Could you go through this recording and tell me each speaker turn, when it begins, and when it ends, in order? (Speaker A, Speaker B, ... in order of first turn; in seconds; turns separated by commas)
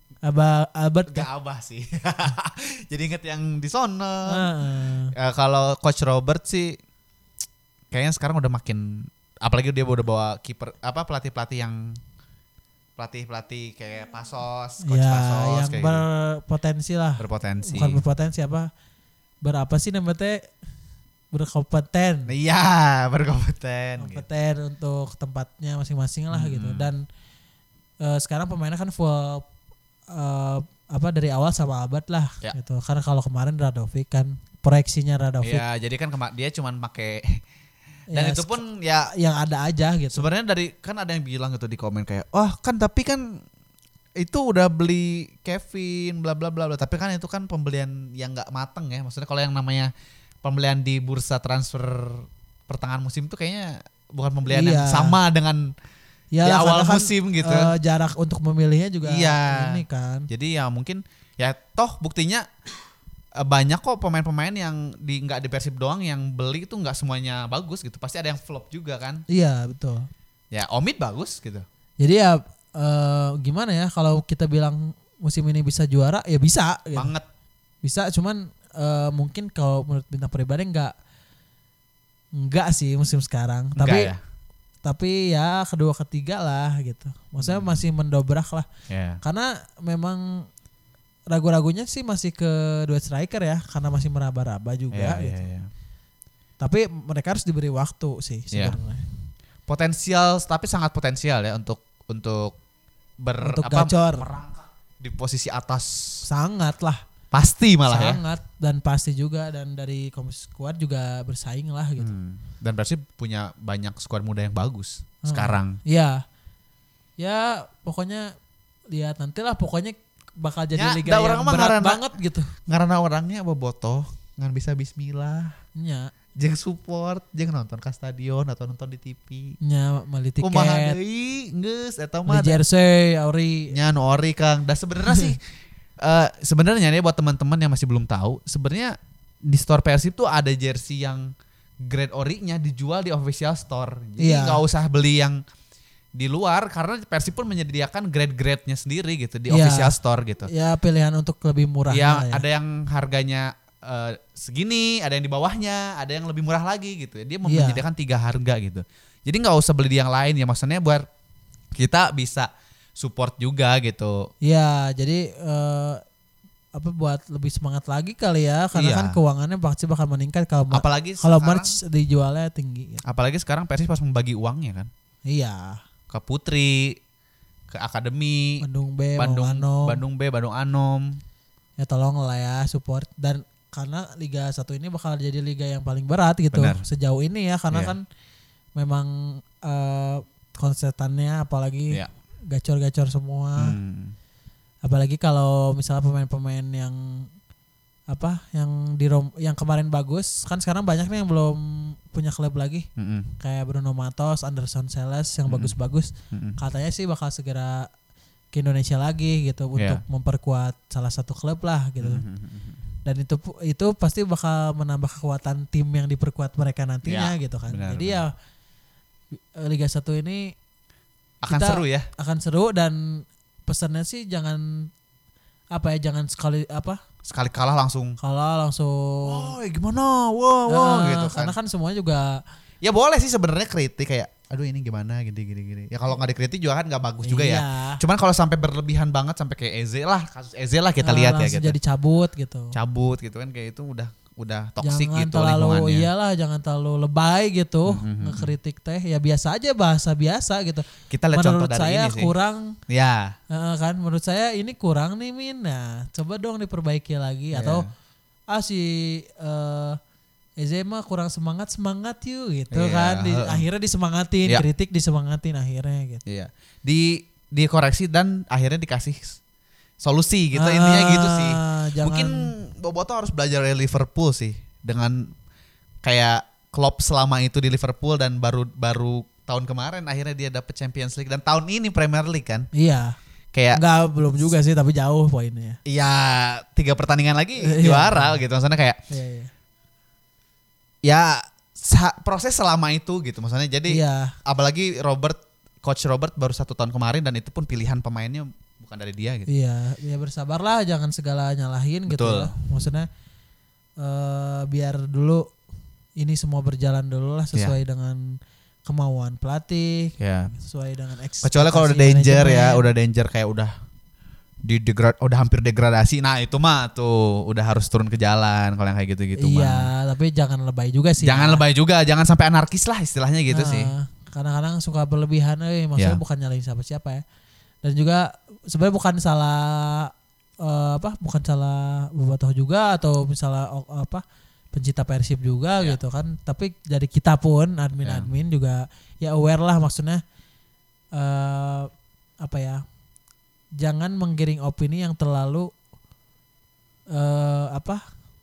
Speaker A: 0.2-1.3, Speaker B: 1.1-4.5, Speaker A: 4.3-5.1, Speaker B: 5.1-6.8, Speaker B: 7.9-12.0, Speaker B: 13.0-16.0, Speaker A: 14.8-18.7, Speaker B: 17.2-18.0, Speaker A: 19.4-20.4, Speaker A: 21.3-22.3, Speaker B: 22.3-24.2, Speaker A: 24.0-27.1, Speaker B: 26.3-26.9, Speaker A: 28.0-29.4, Speaker A: 30.1-35.6, Speaker B: 35.4-37.4, Speaker A: 38.1-40.3, Speaker B: 38.1-39.1, Speaker B: 40.1-43.4, Speaker B: 44.2-49.9, Speaker B: 50.4-55.7, Speaker A: 54.5-55.2, Speaker A: 56.3-60.3, Speaker B: 56.4-57.7, Speaker B: 59.0-62.5, Speaker B: 63.4-69.2, Speaker A: 69.3-70.1, Speaker B: 70.5-71.6, Speaker A: 72.0-77.1, Speaker B: 76.9-77.3, Speaker A: 77.8-80.9, Speaker A: 82.4-84.1, Speaker B: 83.8-84.2, Speaker A: 84.8-88.7, Speaker B: 87.4-87.8, Speaker B: 88.9-89.2, Speaker A: 89.2-90.5, Speaker A: 91.3-95.4, Speaker B: 94.9-95.7, Speaker A: 96.6-99.1, Speaker B: 99.7-102.6, Speaker B: 103.2-106.2, Speaker A: 103.4-104.3, Speaker A: 106.2-107.0, Speaker B: 107.3-108.2, Speaker A: 107.8-112.1, Speaker B: 112.0-115.8, Speaker A: 115.2-116.2, Speaker A: 117.2-118.3, Speaker A: 118.9-122.5, Speaker B: 120.8-122.0, Speaker B: 122.7-125.6, Speaker A: 125.8-126.1, Speaker B: 126.3-129.6, Speaker A: 129.6-131.0, Speaker B: 130.4-132.6, Speaker A: 132.3-133.8, Speaker B: 133.7-135.4, Speaker B: 136.0-145.4, Speaker A: 144.2-144.6, Speaker B: 146.1-150.5, Speaker A: 149.5-152.4, Speaker B: 151.9-161.1, Speaker A: 157.4-157.8, Speaker B: 161.8-164.3, Speaker A: 164.4-166.0, Speaker A: 166.7-173.0, Speaker B: 168.7-169.2, Speaker B: 170.7-171.8, Speaker B: 173.0-174.9, Speaker A: 175.3-175.8, Speaker B: 176.1-177.0, Speaker B: 177.7-178.6, Speaker A: 178.6-180.0, Speaker B: 179.2-181.2, Speaker A: 181.8-188.0, Speaker B: 186.5-186.8, Speaker A: 188.8-193.8, Speaker B: 193.6-194.1, Speaker A: 194.8-197.3, Speaker A: 198.1-202.9, Speaker B: 203.0-203.3, Speaker A: 203.4-207.9, Speaker B: 205.5-205.7, Speaker B: 206.3-206.6, Speaker A: 208.5-212.2, Speaker B: 209.8-210.0, Speaker B: 212.0-212.8, Speaker A: 213.1-218.3, Speaker B: 217.1-218.2, Speaker A: 219.6-220.5, Speaker B: 221.4-222.1, Speaker A: 221.4-224.9, Speaker A: 225.7-227.0, Speaker B: 227.2-228.2, Speaker A: 228.2-229.6, Speaker B: 229.2-231.5, Speaker A: 230.7-232.4, Speaker B: 232.8-241.8, Speaker A: 237.2-238.0, Speaker A: 241.0-242.8, Speaker B: 242.7-246.1, Speaker A: 244.8-252.8, Speaker B: 247.9-248.5, Speaker B: 251.1-252.3, Speaker B: 252.9-253.3, Speaker A: 253.5-257.9, Speaker B: 257.5-257.9, Speaker A: 258.5-260.0, Speaker A: 260.6-266.2, Speaker B: 262.7-263.6, Speaker B: 266.3-269.4, Speaker B: 270.0-275.3, Speaker A: 270.5-272.5, Speaker B: 276.0-282.7, Speaker A: 282.7-283.1, Speaker B: 283.5-283.8, Speaker A: 283.7-285.8, Speaker B: 285.9-289.0, Speaker A: 287.6-288.4, Speaker A: 289.1-289.5, Speaker B: 291.0-299.5, Speaker A: 293.9-294.4, Speaker A: 299.5-303.1, Speaker B: 302.1-302.5, Speaker A: 304.0-305.5, Speaker A: 306.2-312.9, Speaker B: 310.2-310.5, Speaker B: 311.4-313.7, Speaker B: 314.6-319.9, Speaker A: 319.4-321.6, Speaker B: 321.2-323.9, Speaker A: 323.5-327.2, Speaker A: 327.8-340.2, Speaker B: 338.0-338.3, Speaker A: 341.1-341.9, Speaker A: 342.4-342.8, Speaker A: 343.8-345.7, Speaker A: 347.1-348.0